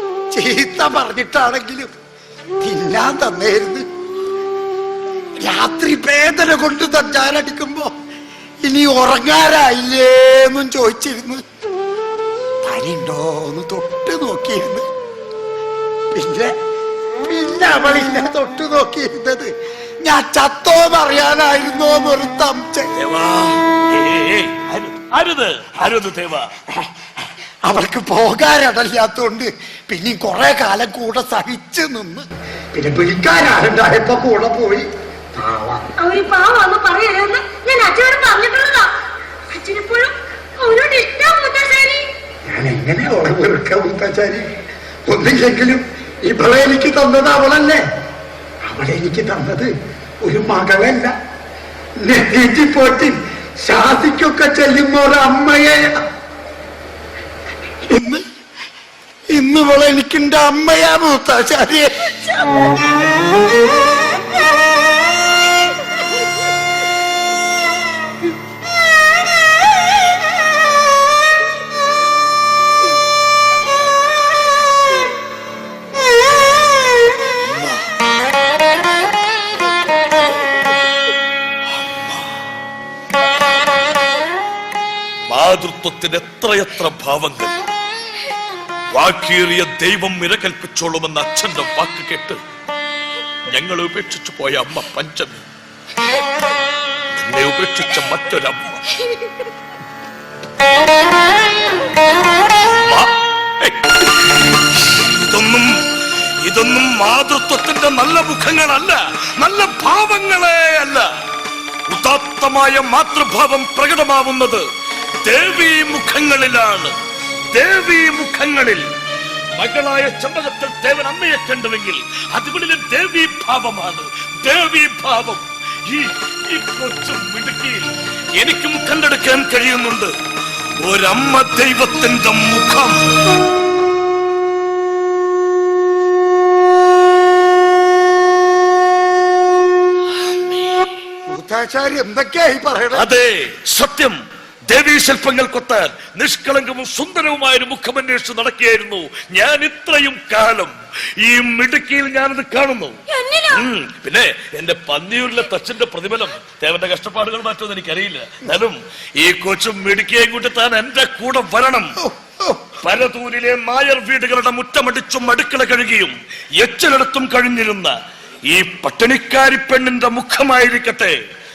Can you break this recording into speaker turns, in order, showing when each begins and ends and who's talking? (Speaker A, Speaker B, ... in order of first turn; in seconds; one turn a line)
Speaker A: 0.3-1.9
Speaker A: 2.6-3.9
Speaker A: 5.4-7.9
Speaker A: 8.6-11.4
Speaker A: 12.6-14.8
Speaker A: 16.1-16.5
Speaker A: 17.3-19.5
Speaker A: 20.0-22.9
Speaker B: 23.0-26.6
Speaker A: 27.6-35.9
Speaker C: 36.0-38.9
Speaker C: 39.5-42.0
Speaker A: 42.5-44.5
Speaker A: 45.1-47.8
Speaker A: 48.6-49.7
Speaker A: 50.2-51.1
Speaker A: 52.0-56.0
Speaker A: 57.8-58.2
Speaker A: 59.3-62.7
Speaker B: 77.3-77.8
Speaker B: 81.7-82.3
Speaker B: 85.3-87.5
Speaker B: 88.9-92.4
Speaker B: 93.5-95.4
Speaker B: 97.1-99.0
Speaker B: 102.6-105.7
Speaker B: 106.4-111.1
Speaker B: 111.9-114.7
Speaker B: 115.2-116.9
Speaker B: 117.5-118.8
Speaker B: 119.6-130.1
Speaker B: 130.8-133.0
Speaker B: 140.2-140.9
Speaker A: 141.3-143.1
Speaker B: 142.9-153.0
Speaker C: 153.1-153.6
Speaker B: 153.5-161.9
Speaker A: 162.0-162.6
Speaker B: 162.8-167.9
Speaker B: 168.5-171.2